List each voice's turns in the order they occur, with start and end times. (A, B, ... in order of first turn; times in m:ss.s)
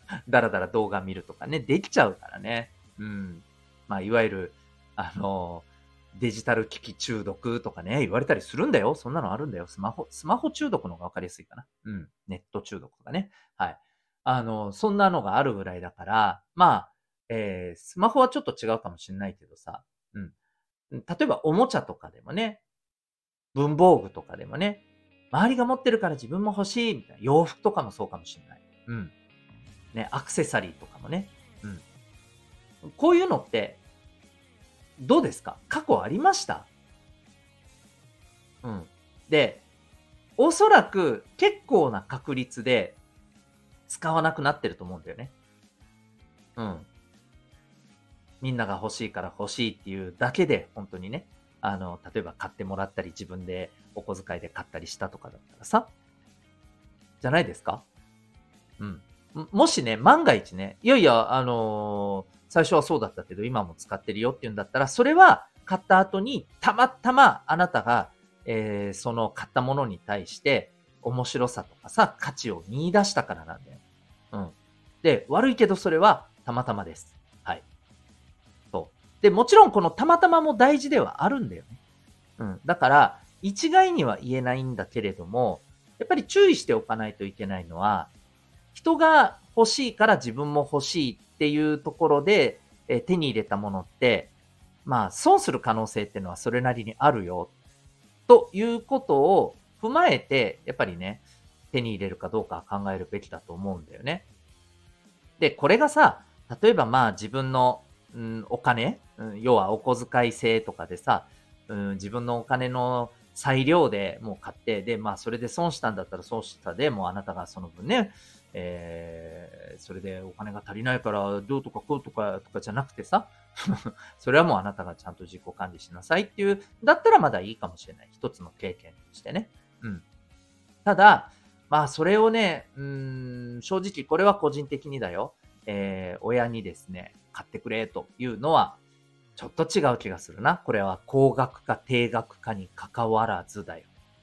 0:00.2-0:20.3 A
0:20.9-0:22.6 A
0:23.5-0:29.1 A
0:29.9-0:31.8 A
0:32.8-0:33.8 A
0:35.0-0:36.7 A
0:38.6-0:39.6 A
0:40.4-0:43.0 A
0:43.9-0:45.3 A
0:46.6-0:46.9 A
0:48.4-0:55.9 A
0:57.2-0:57.8 A
0:58.8-1:13.8 A
1:14.3-1:17.6 A
1:18.7-1:21.8 A
1:22.4-1:28.1 A
1:28.7-1:34.3 A
1:34.8-1:37.5 A
1:38.3-1:44.2 A
1:45.4-2:10.0 A
2:10.8-2:18.8 A
2:19.4-2:23.9 A